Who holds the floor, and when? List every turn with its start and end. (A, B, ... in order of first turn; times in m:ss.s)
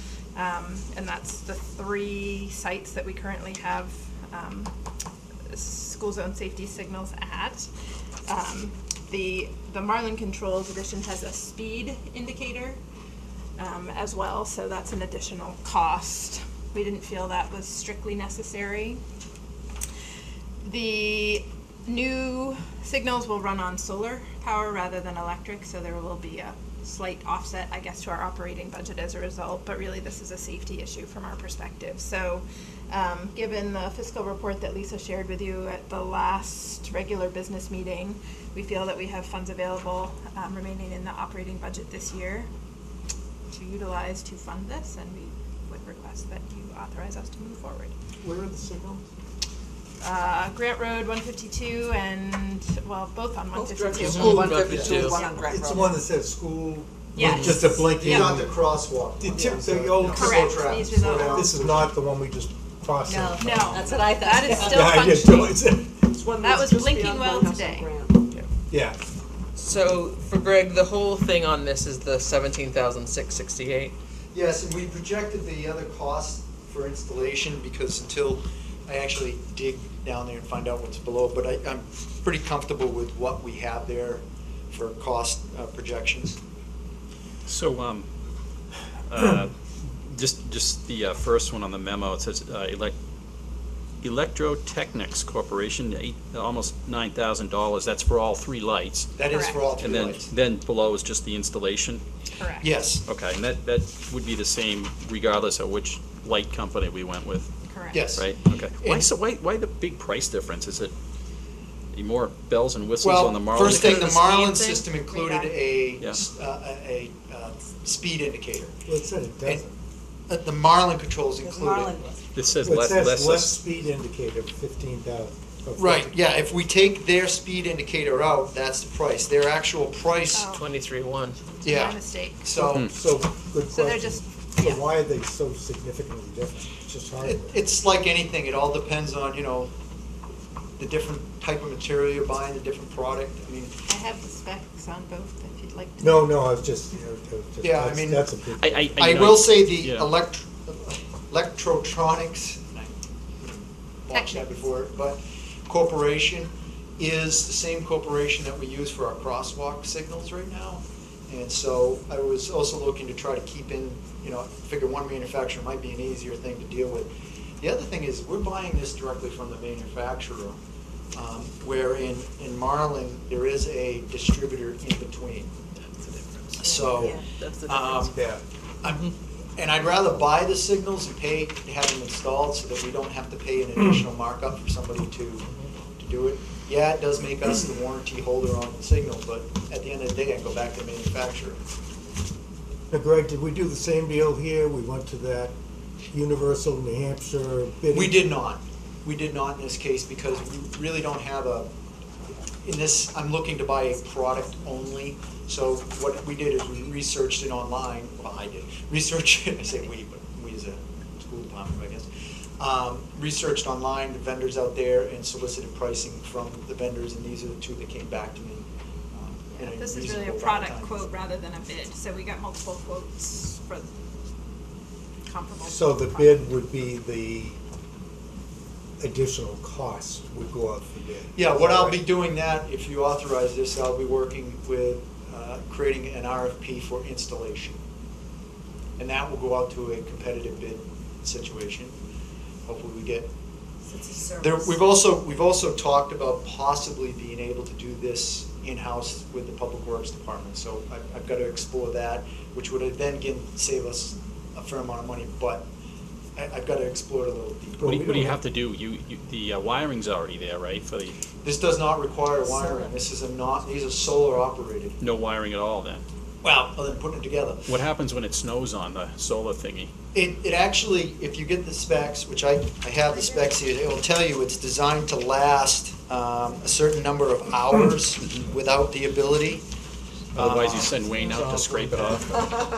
0:00.3-0:04.7 A
0:05.5-0:07.7 A
0:08.3-0:12.8 A
0:13.6-0:19.0 A
0:20.6-0:42.5 A
0:43.5-0:47.9 A
0:48.2-0:49.0 B
0:50.0-0:54.9 A
0:53.6-0:55.9 C
0:53.7-0:55.3 D
0:54.1-0:58.7 B
0:57.1-0:58.3 A
0:57.2-0:57.6 D
0:57.3-1:01.9 E
0:59.2-1:06.1 B
1:00.1-1:01.5 A
1:03.0-1:05.1 C
1:03.4-1:05.7 A
1:06.4-1:07.9 A
1:06.4-1:08.3 C
1:08.7-1:09.0 B
1:09.6-1:14.0 D
1:14.3-1:26.4 E
1:27.4-1:28.1 F
1:29.1-1:32.9 F
1:34.0-1:39.2 F
1:39.2-1:40.3 E
1:39.3-1:39.6 A
1:39.8-1:42.0 F
1:42.3-1:42.8 A
1:42.6-1:43.0 E
1:43.1-1:47.5 F
1:47.6-1:48.1 A
1:47.9-1:49.1 E
1:48.1-1:50.9 F
1:51.9-1:54.3 F
1:53.0-1:58.7 E
1:54.6-1:55.6 A
1:58.8-1:59.7 B
2:00.3-2:02.1 E
2:01.4-2:02.2 C
2:02.3-2:03.6 F
2:02.6-2:06.1 B
2:05.8-2:10.5 E
2:10.3-2:10.7 A
2:10.5-2:11.4 D
2:11.6-2:12.5 A
2:11.6-2:12.8 E
2:12.5-2:17.6 B
2:13.7-2:14.7 A
2:17.2-2:19.7 E
2:20.8-2:23.7 E
2:23.9-2:26.4 A
2:26.0-2:29.0 B
2:27.6-2:28.3 E
2:28.6-2:30.1 F
2:29.0-2:50.6 E
2:34.1-2:34.6 A
2:51.1-2:58.2 E
2:56.6-2:58.2 D
2:56.9-2:57.2 B
2:57.0-2:57.2 C
2:58.1-2:58.4 B
2:58.8-3:11.6 E
3:12.9-3:15.5 B
3:16.1-3:18.3 B
3:17.9-3:21.7 E
3:22.6-3:32.1 E
3:32.6-3:41.1 E
3:39.5-3:44.0 A
3:45.2-3:46.8 A
3:45.6-3:47.6 B
3:49.0-3:52.0 B
3:51.3-3:57.8 E
3:59.0-4:01.9 E
4:02.6-4:03.3 E
4:03.9-4:04.8 C
4:04.4-4:15.7 E
4:16.4-4:18.0 E
4:17.8-4:18.4 B
4:17.8-4:21.2 F
4:21.4-4:25.0 E
4:22.5-4:22.9 C
4:25.0-4:26.0 F
4:26.4-4:27.7 E
4:27.6-4:29.9 F
4:30.1-4:39.6 E
4:40.3-4:42.2 E
4:40.3-4:42.4 F